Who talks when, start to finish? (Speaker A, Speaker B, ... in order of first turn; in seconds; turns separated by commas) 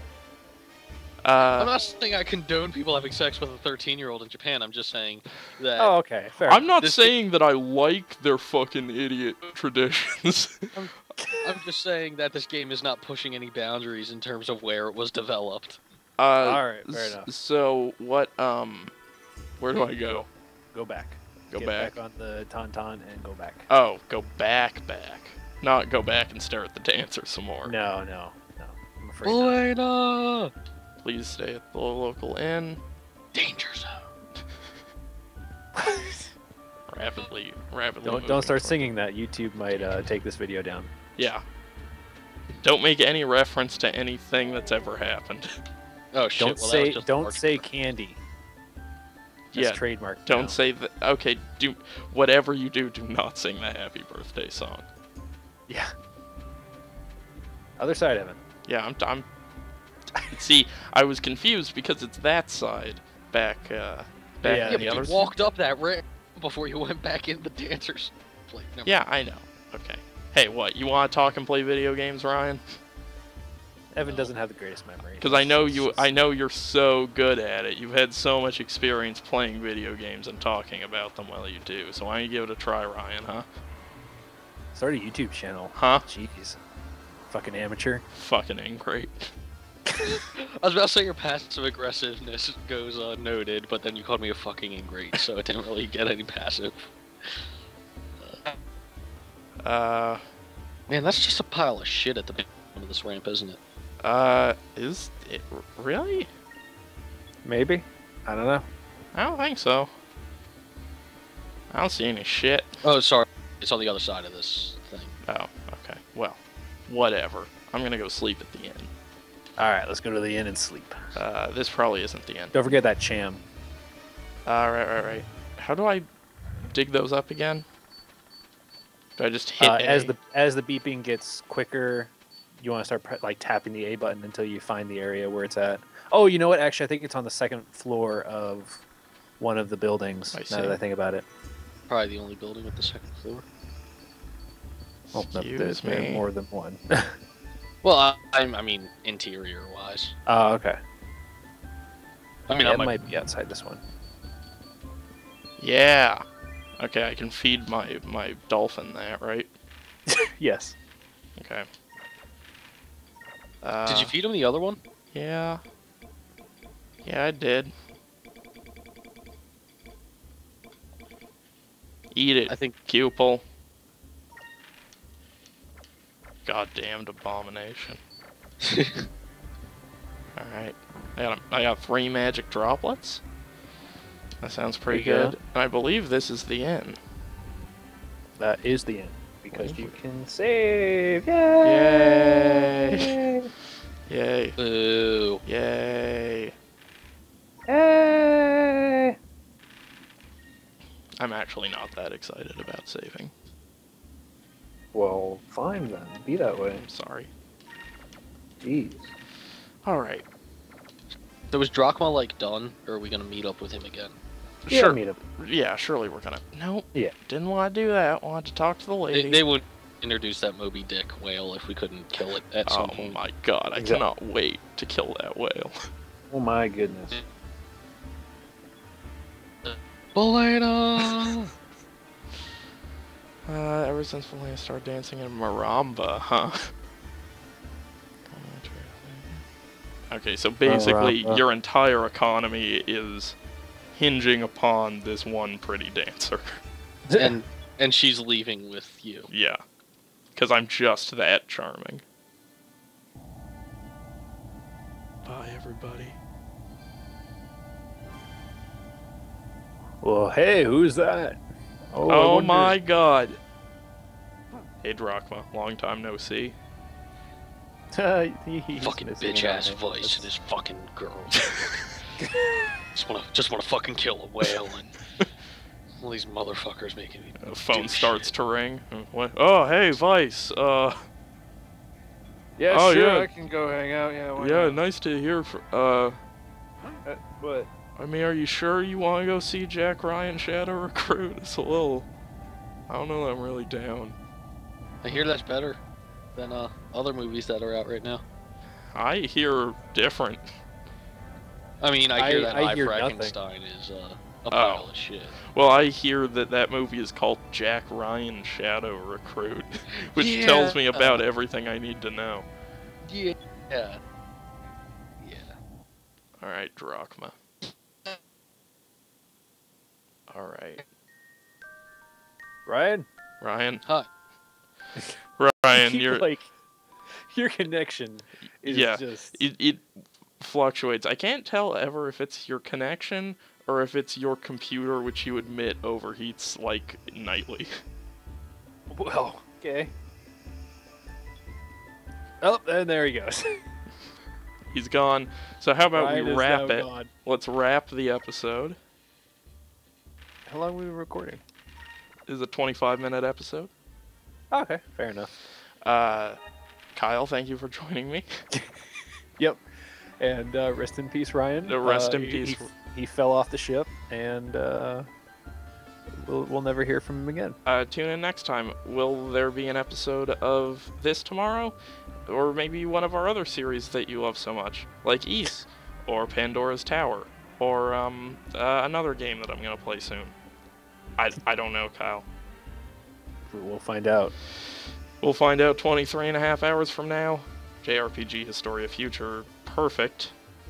Speaker A: 1.2-1.7, Speaker B: 1.6-5.9, Speaker C: 5.8-6.7, Speaker A: 6.5-10.7, Speaker B: 6.8-7.1, Speaker B: 10.7-15.8, Speaker A: 16.2-18.9, Speaker C: 16.4-17.3, Speaker A: 19.6-20.3, Speaker C: 20.1-23.7, Speaker A: 21.5-21.9, Speaker A: 23.7-27.7, Speaker C: 27.6-29.6, Speaker B: 29.2-30.5, Speaker A: 31.0-32.8, Speaker B: 33.3-34.0, Speaker C: 35.8-36.3, Speaker A: 36.9-38.9, Speaker C: 38.0-40.9, Speaker A: 39.6-39.9, Speaker A: 41.2-41.4, Speaker A: 42.6-45.5, Speaker B: 46.1-47.6, Speaker C: 46.4-48.2, Speaker A: 49.5-54.9, Speaker C: 49.5-50.6, Speaker C: 55.7-55.9, Speaker C: 57.8-58.4, Speaker A: 58.6-59.2, Speaker A: 60.3-65.3, Speaker C: 64.4-65.5, Speaker B: 64.6-68.9, Speaker A: 68.8-72.6, Speaker C: 73.9-76.2, Speaker B: 74.0-74.3, Speaker A: 75.2-83.5, Speaker C: 84.7-86.6, Speaker A: 85.7-86.0, Speaker C: 87.3-88.0, Speaker A: 88.1-89.3, Speaker B: 90.0-97.5, Speaker B: 98.2-98.5, Speaker A: 99.6-100.2, Speaker B: 100.9-103.6, Speaker A: 104.0-106.3, Speaker C: 107.4-108.6, Speaker A: 109.1-109.9, Speaker A: 111.7-112.8, Speaker B: 112.8-115.1, Speaker A: 115.2-118.9, Speaker C: 119.6-121.0, Speaker A: 121.2-122.8, Speaker C: 122.5-123.4, Speaker A: 124.5-126.1, Speaker A: 126.6-127.6, Speaker A: 129.2-130.1, Speaker C: 129.6-138.8, Speaker C: 139.4-141.2, Speaker A: 140.3-140.8, Speaker B: 141.9-143.4, Speaker A: 145.1-146.2, Speaker C: 145.1-147.2, Speaker B: 147.8-150.1, Speaker C: 150.3-150.8, Speaker B: 152.5-152.9, Speaker C: 152.5-153.8, Speaker A: 155.6-156.2, Speaker A: 156.8-159.5, Speaker C: 160.1-160.8, Speaker A: 161.4-161.7, Speaker A: 163.6-164.1, Speaker B: 163.8-164.8, Speaker A: 165.1-165.6, Speaker A: 167.0-167.7, Speaker A: 172.1-173.4, Speaker B: 172.5-172.7, Speaker A: 176.4-178.0, Speaker B: 178.6-179.1, Speaker A: 180.3-183.2, Speaker A: 184.4-187.0, Speaker C: 184.9-185.4, Speaker C: 188.4-193.5, Speaker A: 189.5-189.9, Speaker A: 191.6-193.2, Speaker A: 194.1-194.6, Speaker B: 194.6-195.4, Speaker A: 195.4-196.5, Speaker C: 197.7-199.2, Speaker A: 201.2-203.3, Speaker C: 204.9-206.8, Speaker A: 206.8-207.3, Speaker C: 208.6-209.1, Speaker A: 209.8-210.2, Speaker B: 211.5-214.2, Speaker A: 214.7-219.4, Speaker C: 214.7-215.2, Speaker B: 219.1-223.2, Speaker A: 222.6-225.8, Speaker C: 223.8-224.0, Speaker C: 226.3-227.2, Speaker B: 229.6-231.5, Speaker A: 233.4-236.7, Speaker A: 238.3-239.4, Speaker A: 240.1-243.4, Speaker C: 240.6-241.4, Speaker A: 243.9-246.6, Speaker C: 247.1-247.4, Speaker B: 247.2-249.3, Speaker A: 249.3-249.6, Speaker A: 250.3-252.0, Speaker A: 255.2-256.2, Speaker C: 260.0-261.4, Speaker C: 261.9-262.7, Speaker A: 262.1-263.4, Speaker A: 264.8-266.6, Speaker C: 267.9-270.3, Speaker B: 268.8-271.6, Speaker B: 272.9-275.0, Speaker B: 276.0-278.3, Speaker A: 277.4-281.0, Speaker C: 282.6-284.8, Speaker A: 282.7-283.3, Speaker A: 284.4-286.2, Speaker C: 287.0-287.7, Speaker A: 287.9-292.1, Speaker A: 292.9-294.2, Speaker B: 295.0-295.8, Speaker B: 296.4-298.2, Speaker A: 298.9-300.6, Speaker B: 301.8-305.4, Speaker C: 302.1-303.4, Speaker A: 304.5-304.9, Speaker A: 305.4-312.4, Speaker B: 310.0-311.2, Speaker B: 313.0-314.0, Speaker B: 315.2-315.5, Speaker A: 316.4-317.4, Speaker A: 320.3-320.8, Speaker C: 322.6-323.1, Speaker A: 323.4-323.8, Speaker A: 325.4-326.3, Speaker C: 325.7-326.5, Speaker C: 327.3-329.4, Speaker A: 328.6-337.8, Speaker C: 338.9-339.9, Speaker C: 342.4-343.6, Speaker A: 344.7-348.8, Speaker C: 345.9-347.1, Speaker C: 350.5-351.4, Speaker A: 352.3-353.7, Speaker C: 354.5-355.3, Speaker A: 355.8-356.4, Speaker A: 356.9-358.3, Speaker C: 359.4-359.6, Speaker C: 360.2-365.1, Speaker A: 361.6-362.7, Speaker C: 366.2-367.6, Speaker A: 367.6-371.7, Speaker A: 372.3-380.3, Speaker A: 381.2-382.2, Speaker C: 383.5-384.3, Speaker A: 385.2-390.3